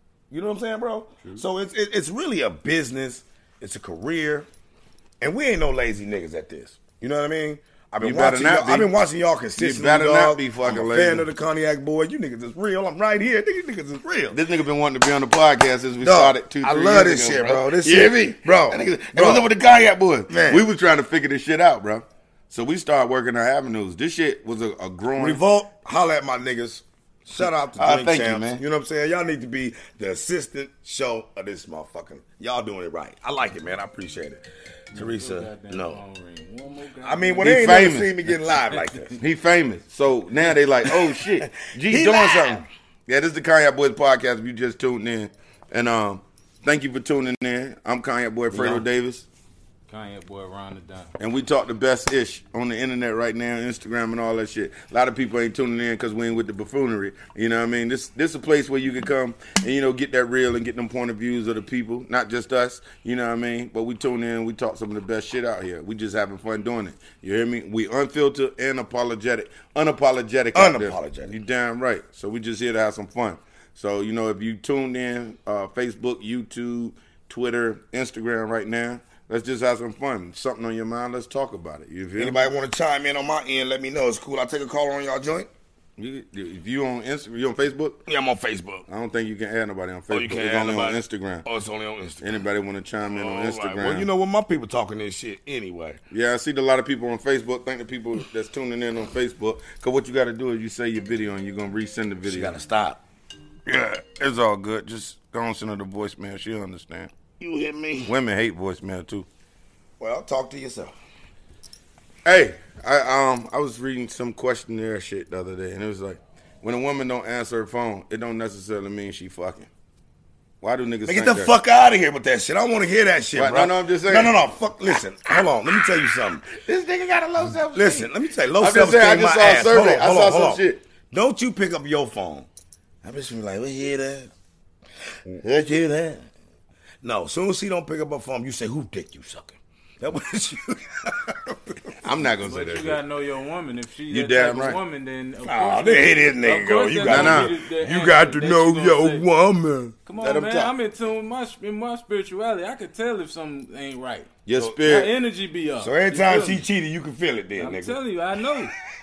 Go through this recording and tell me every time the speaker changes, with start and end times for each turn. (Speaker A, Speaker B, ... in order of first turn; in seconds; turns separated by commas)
Speaker A: 0.3-4.5, Speaker A: 5.2-14.4, Speaker B: 8.0-8.9, Speaker B: 9.6-11.3, Speaker B: 14.3-25.4, Speaker A: 16.0-19.5, Speaker A: 20.3-20.6, Speaker A: 25.2-36.0, Speaker B: 27.8-28.6, Speaker C: 34.9-37.6, Speaker A: 37.0-39.2, Speaker B: 37.4-38.2, Speaker B: 39.2-49.3, Speaker A: 40.9-42.7, Speaker A: 48.5-48.8, Speaker C: 49.9-51.1, Speaker B: 51.2-82.5, Speaker A: 70.5-71.4, Speaker A: 82.2-85.5, Speaker B: 86.0-88.0, Speaker A: 88.1-88.9, Speaker B: 88.9-91.5, Speaker A: 90.1-92.5, Speaker B: 92.2-94.1, Speaker A: 93.1-96.0, Speaker B: 96.1-102.6, Speaker A: 102.2-103.0, Speaker B: 103.7-107.1, Speaker A: 107.4-108.1, Speaker B: 108.0-109.3, Speaker A: 110.0-110.9, Speaker B: 112.2-119.7, Speaker B: 120.6-121.5, Speaker A: 121.1-126.5, Speaker B: 123.3-124.3, Speaker B: 126.5-130.8, Speaker A: 127.7-132.5, Speaker A: 133.0-134.3, Speaker A: 135.3-136.3, Speaker A: 137.0-142.0, Speaker B: 142.0-143.0, Speaker C: 142.4-149.3, Speaker B: 144.1-144.8, Speaker A: 145.4-150.0, Speaker B: 147.0-147.5, Speaker C: 150.1-154.3, Speaker B: 150.2-150.7, Speaker B: 154.5-155.1, Speaker A: 154.6-155.1, Speaker C: 154.8-156.6, Speaker A: 155.8-158.0, Speaker C: 157.6-158.7